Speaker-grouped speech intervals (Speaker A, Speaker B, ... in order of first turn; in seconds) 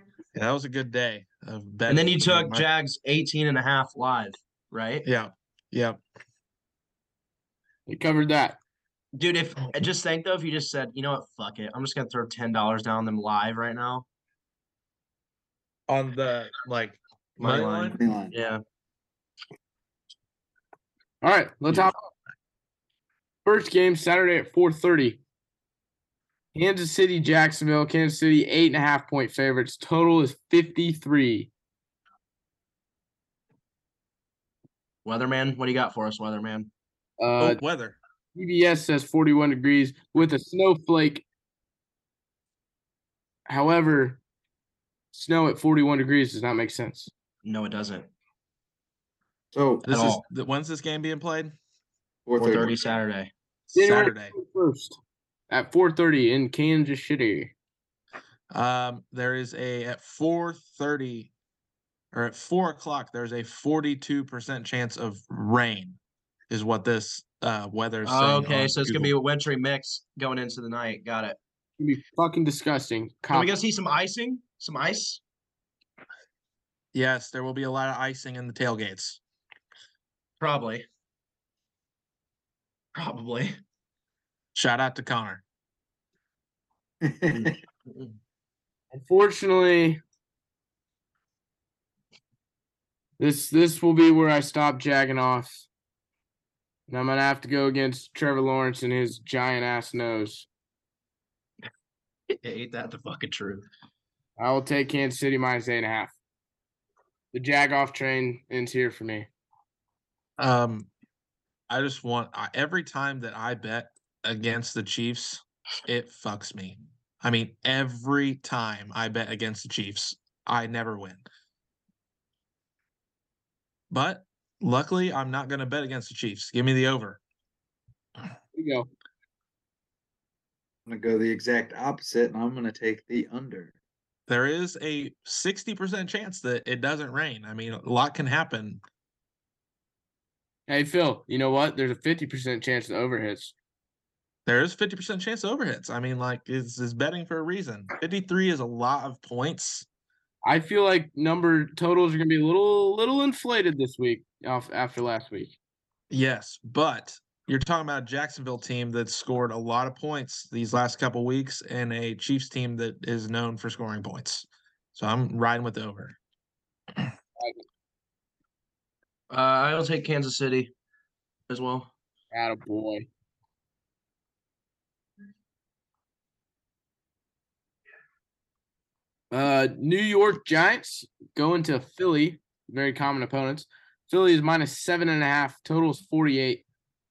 Speaker A: 0.3-2.6, 5.0-6.0, 15.9-18.0, 37.4-38.0, 49.9-51.5, 53.7-54.3, 58.5-61.3, 62.1-66.0, 66.5-69.1, 76.9-79.2, 84.5-85.4, 110.4-110.9, 111.7-121.3, 123.9-127.2, 134.3-138.8, 144.5-149.9, 156.1-166.2
Speaker B: 1.9-5.0, 9.2-14.1, 17.4-18.6, 35.0-36.7, 47.5-48.1, 49.9-50.2, 52.4-53.3, 68.0-71.4, 73.3-75.2, 80.4-80.8, 82.9-83.5, 87.3-88.1, 102.3-103.7, 169.3-170.7, 171.5-171.9
Speaker C: 7.9-8.6, 21.2-22.0, 23.4-25.2, 26.5-31.5, 37.2-37.6, 38.4-41.2, 43.5-44.2, 45.1-47.1, 53.7-55.0, 55.5-57.5, 71.8-73.5, 88.9-90.0, 93.2-95.7, 96.9-100.5, 104.4-106.1, 107.3-109.3, 128.5-128.9, 140.7-143.5, 150.4-155.6, 172.3-173.1, 179.3-186.6
Speaker D: 18.0-18.3, 49.5-49.9, 52.3-52.8, 87.0-87.6, 130.9-133.7